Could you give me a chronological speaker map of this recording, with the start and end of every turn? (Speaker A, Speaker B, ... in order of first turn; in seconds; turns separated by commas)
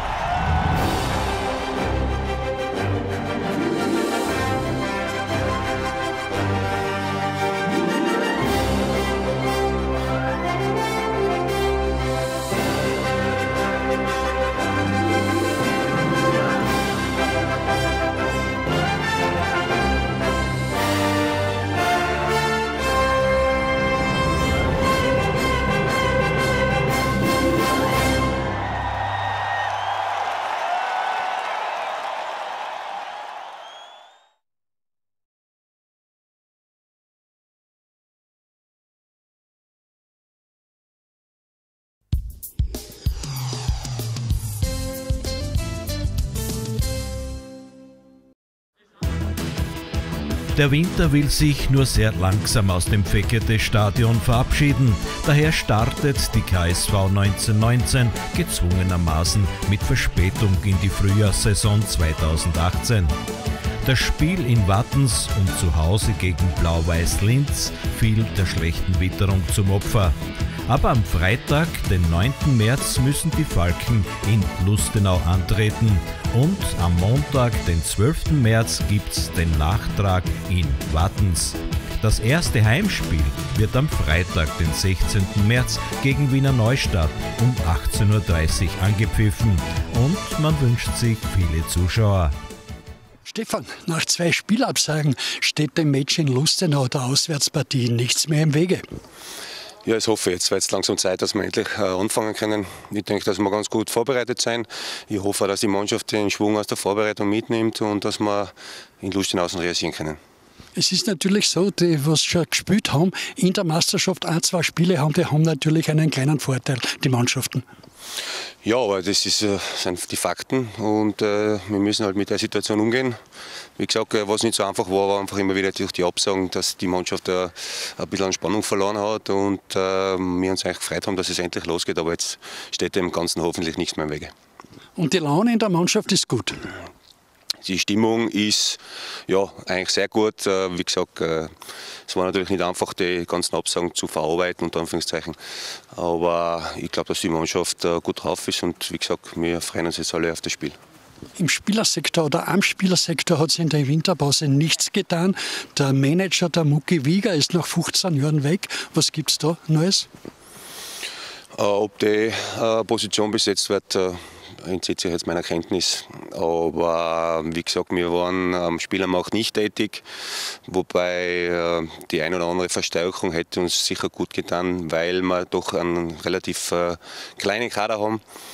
Speaker A: 50.5-63.2, Speaker A: 63.8-92.3, Speaker B: 93.3-98.9, Speaker C: 99.8-110.2, Speaker B: 110.8-117.7, Speaker C: 118.6-123.2, Speaker C: 123.8-134.3, Speaker B: 135.0-136.6, Speaker C: 137.6-141.6, Speaker C: 142.1-150.8, Speaker B: 151.4-160.1, Speaker C: 161.6-178.2